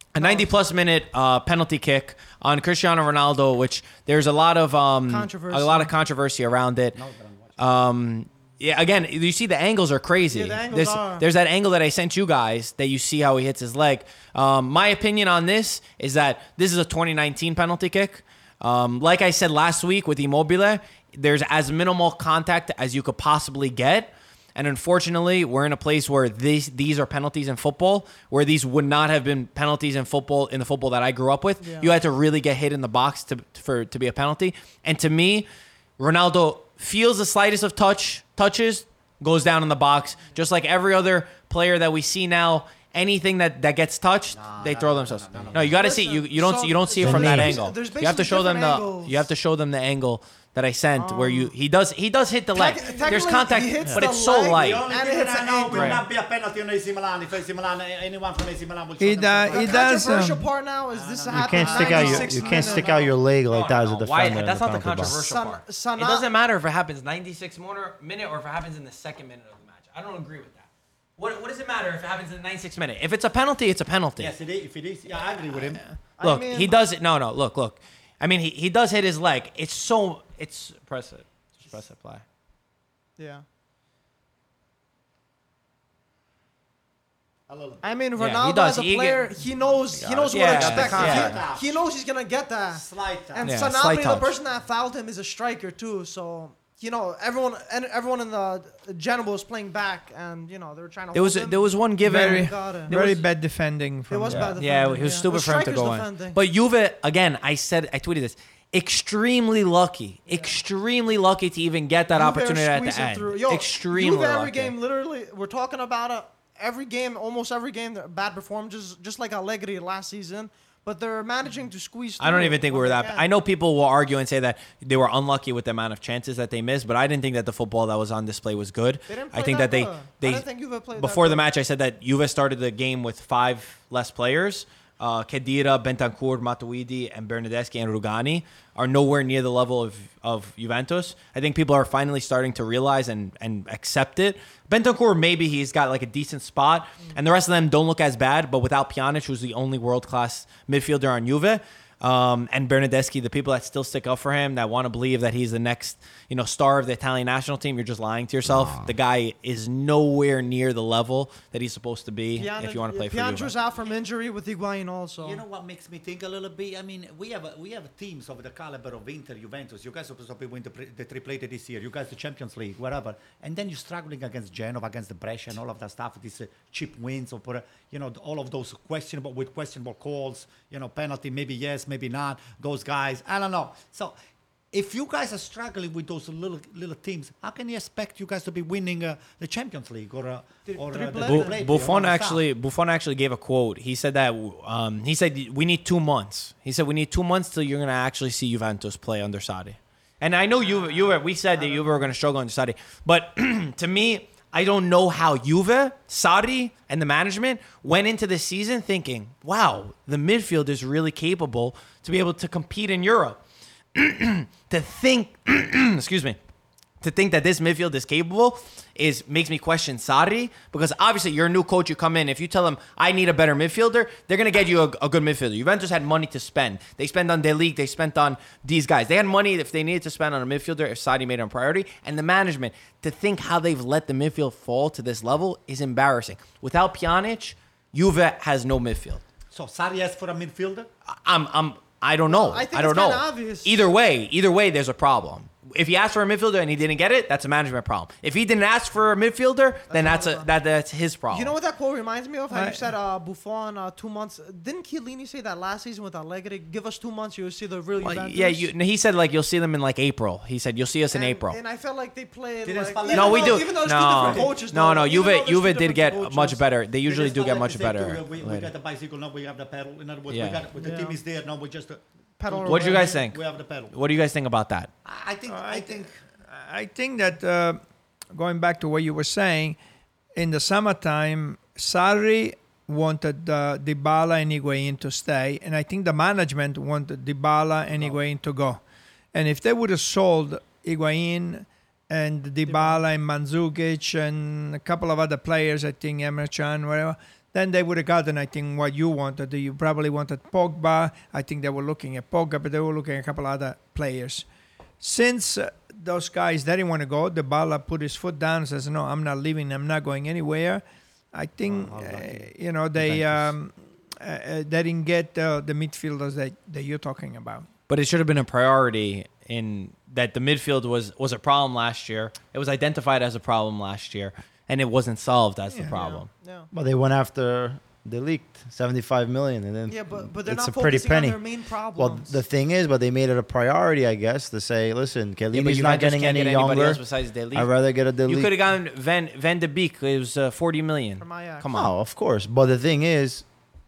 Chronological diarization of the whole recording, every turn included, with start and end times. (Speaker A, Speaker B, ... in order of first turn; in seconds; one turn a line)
Speaker A: 0.1-7.0
Speaker B: 0.2-0.6
Speaker B: 5.0-5.9
Speaker C: 6.9-7.7
Speaker A: 7.6-35.5
Speaker B: 10.3-11.2
Speaker B: 31.6-31.9
Speaker A: 36.0-54.8
Speaker C: 44.3-45.8
Speaker B: 45.7-49.2
Speaker D: 47.0-47.6
Speaker B: 51.0-51.5
Speaker B: 52.5-56.0
Speaker C: 54.4-60.0
Speaker A: 55.7-56.0
Speaker E: 59.0-60.5
Speaker B: 59.5-63.1
Speaker C: 61.0-63.1
Speaker D: 61.3-65.2
Speaker A: 63.5-74.3
Speaker B: 65.1-66.3
Speaker C: 74.2-75.8
Speaker A: 75.5-82.2
Speaker B: 76.2-76.8
Speaker B: 83.2-83.4
Speaker C: 87.5-87.8
Speaker B: 87.8-103.2
Speaker A: 88.2-89.3
Speaker A: 90.0-91.4
Speaker C: 90.0-91.8
Speaker C: 92.7-93.5
Speaker A: 93.4-94.3
Speaker A: 101.1-103.1
Speaker E: 102.0-104.6
Speaker B: 104.1-106.4
Speaker A: 104.3-114.7
Speaker B: 110.3-110.5
Speaker B: 112.1-123.3
Speaker A: 122.2-163.5
Speaker B: 129.1-131.5
Speaker D: 158.5-158.9
Speaker B: 162.3-165.4
Speaker C: 165.2-184.1
Speaker C: 184.7-192.4
Speaker B: 190.7-191.6
Speaker A: 191.2-213.4
Speaker B: 200.6-202.1
Speaker A: 213.9-216.4
Speaker A: 217.0-239.2
Speaker C: 239.5-240.9
Speaker A: 241.1-251.5
Speaker B: 242.3-243.8
Speaker B: 249.9-250.5
Speaker B: 251.3-258.7
Speaker E: 252.5-252.9
Speaker A: 258.0-261.6
Speaker B: 261.1-266.6
Speaker C: 262.6-264.5
Speaker A: 263.1-268.7
Speaker C: 267.0-273.9
Speaker A: 270.3-270.6
Speaker B: 270.8-271.2
Speaker B: 272.4-273.2
Speaker A: 272.6-274.9
Speaker C: 275.0-276.2
Speaker E: 275.5-277.8
Speaker E: 278.3-279.8
Speaker E: 280.3-288.8
Speaker E: 289.3-304.4
Speaker B: 292.7-293.0
Speaker E: 305.0-317.6
Speaker C: 311.6-312.5
Speaker A: 317.9-326.3
Speaker B: 325.9-326.7
Speaker D: 326.7-331.4
Speaker B: 329.9-332.4
Speaker D: 331.9-337.0
Speaker A: 335.5-337.7
Speaker D: 337.5-338.5
Speaker A: 338.2-341.9
Speaker B: 341.2-341.6
Speaker D: 341.7-343.4